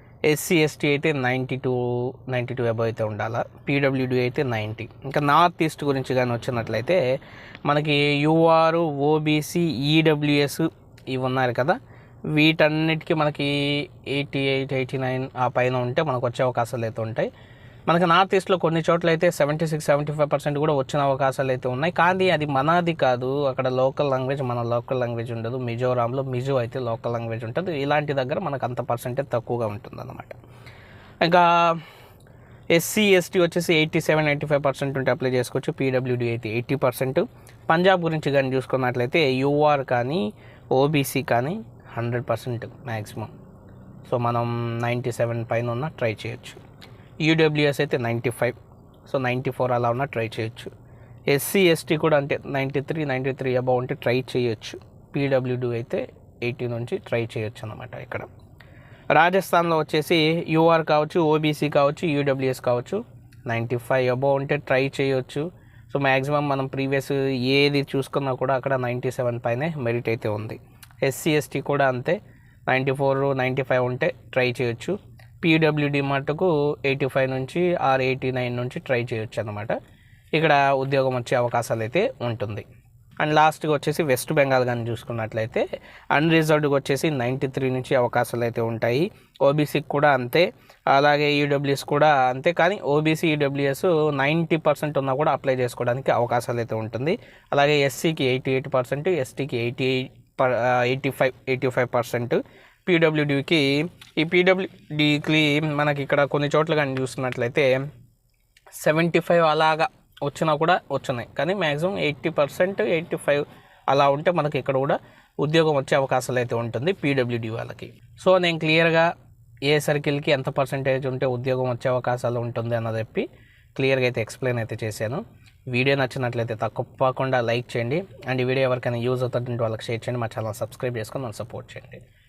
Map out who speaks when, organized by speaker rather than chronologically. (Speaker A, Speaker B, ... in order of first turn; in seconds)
Speaker A: 0.3-7.0, 7.7-11.8, 12.3-17.3, 17.9-30.4, 31.2-31.8, 32.8-43.3, 44.1-46.6, 47.2-50.7, 51.3-58.3, 59.1-72.2, 72.7-79.8, 80.4-82.7, 83.2-107.7, 108.8-119.1, 119.7-132.0